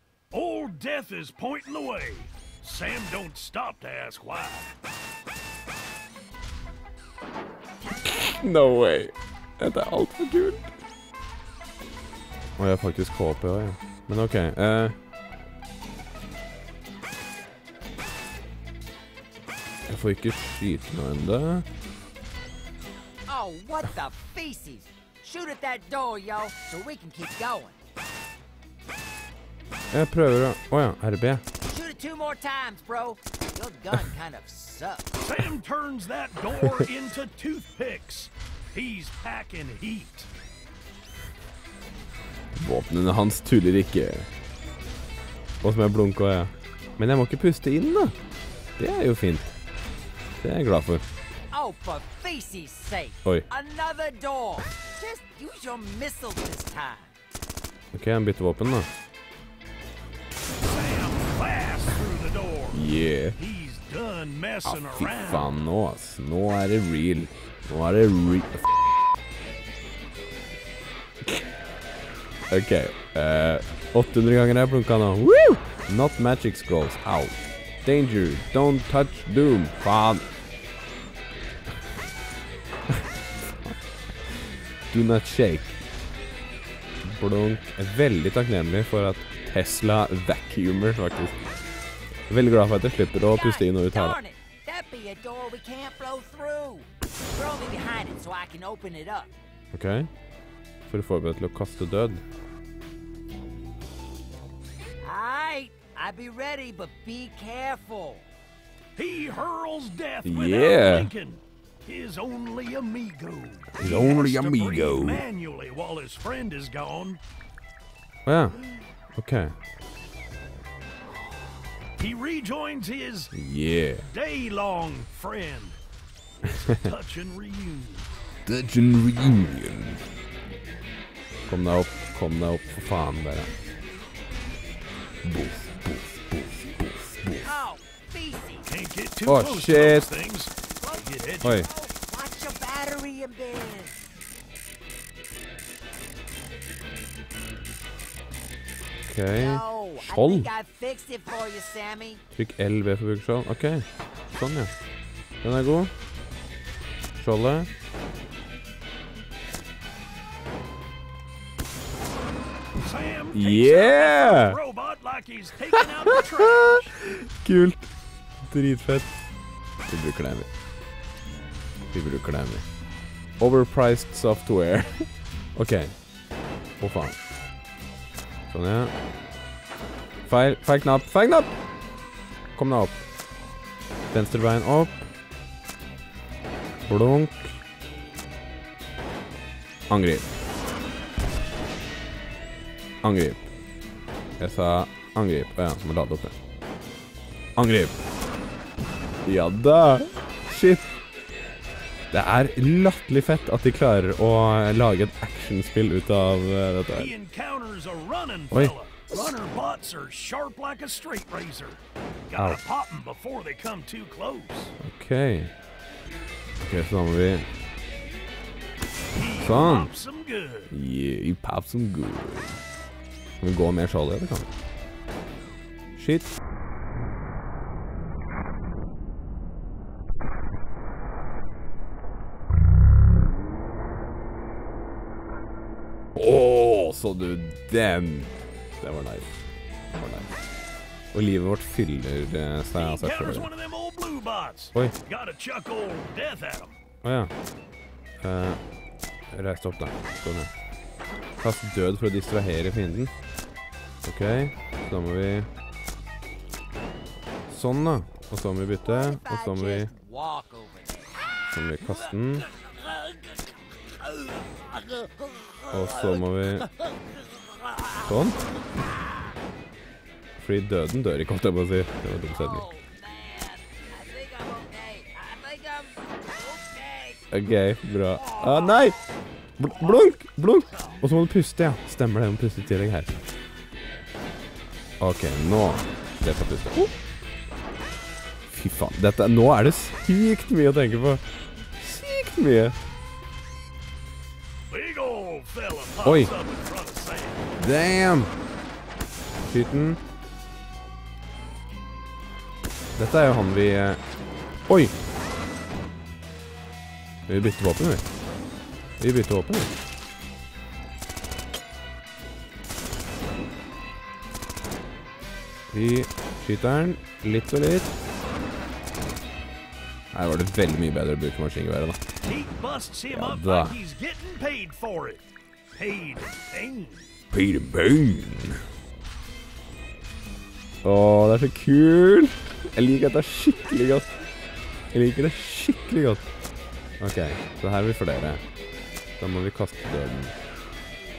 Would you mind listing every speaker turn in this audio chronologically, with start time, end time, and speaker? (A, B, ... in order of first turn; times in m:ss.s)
0:00.3-0:04.7 A
0:08.0-0:10.7 B
0:12.6-0:15.0 B
0:19.9-0:21.7 B
0:23.3-0:27.8 C
0:29.9-0:31.4 B
0:31.6-0:35.1 C
0:35.2-0:40.3 A
0:42.6-0:44.3 B
0:45.6-0:48.2 B
0:48.8-0:49.5 B
0:50.4-0:51.0 B
0:51.5-0:57.2 C
0:57.9-0:58.9 B
1:00.6-1:05.5 A
1:02.7-1:03.4 B
1:04.6-1:08.8 B
1:12.5-1:20.2 B
1:24.9-1:25.8 B
1:27.0-1:31.4 B
1:32.3-1:34.2 B
1:33.3-1:39.3 C
1:39.7-1:40.1 B
1:40.9-1:42.2 B
1:45.0-1:48.3 C
1:49.0-1:57.2 A
1:50.2-1:51.1 B
1:53.7-1:55.2 B
1:58.3-1:58.6 B
1:59.1-1:59.5 B
2:02.0-2:03.3 A
2:03.3-2:04.1 B
2:04.0-2:05.8 A
2:06.4-2:08.1 A
2:08.5-2:10.0 B
2:11.5-2:13.5 B
2:15.2-2:17.5 B
2:17.4-2:18.7 C
2:18.7-2:21.6 A
2:19.3-2:20.1 B
2:20.8-2:24.0 C
2:21.4-2:21.7 B
2:29.1-2:30.5 B
2:29.4-2:32.2 C
2:32.3-2:34.7 B
2:35.4-2:35.9 B
2:37.2-2:37.7 B
2:42.8-2:47.0 A
2:43.3-2:44.6 B
2:45.8-2:47.9 B
2:48.5-2:49.1 B
2:49.9-2:50.5 B
2:51.9-2:52.6 B
2:53.4-2:56.0 B
2:56.8-2:57.2 B
2:58.5-2:58.9 B
3:00.3-3:01.5 B
3:02.6-3:03.0 B
3:04.1-3:05.0 B
3:06.8-3:07.6 B
3:09.9-3:10.3 B
3:13.0-3:13.5 B
3:14.4-3:16.3 B
3:17.6-3:18.0 B
3:19.2-3:21.0 B
3:22.1-3:27.1 B
3:26.9-3:34.8 A
3:34.8-3:35.5 B
3:36.6-3:37.5 B
3:39.1-3:40.7 A
3:39.4-3:39.9 B
3:40.7-3:42.6 B
3:43.4-3:44.5 B
3:46.0-3:46.3 B
3:56.2-3:59.4 B
3:59.9-4:00.3 B
4:01.1-4:03.5 B
4:02.7-4:06.8 A
4:07.0-4:07.3 B
4:08.2-4:08.6 B
4:09.3-4:10.5 B
4:11.4-4:13.1 B
4:14.0-4:15.5 B
4:17.5-4:19.9 B
4:18.8-4:21.4 C
4:21.5-4:22.5 B
4:22.5-4:23.2 C
4:24.1-4:28.1 C
4:25.7-4:26.7 B
4:28.1-4:28.4 B
4:28.7-4:29.2 C
4:30.4-4:32.7 B
4:32.3-4:37.2 C
4:37.3-4:39.0 B
4:38.3-4:38.9 C
4:39.6-4:43.1 B
4:45.0-4:46.9 B
4:48.5-4:51.2 B
4:51.8-4:52.8 B
4:54.7-4:57.4 A
4:56.0-4:56.3 B
4:57.6-4:58.3 B
4:59.4-5:00.0 B
5:03.0-5:04.0 B
5:04.7-5:04.9 B
5:07.3-5:08.1 B
5:09.0-5:09.7 B
5:15.7-5:18.0 B
5:20.1-5:22.0 B
5:22.2-5:27.1 A
5:23.1-5:23.8 B
5:27.3-5:28.6 B
5:30.8-5:34.1 B
5:34.9-5:36.2 B
5:37.0-5:38.4 B
5:39.2-5:40.4 B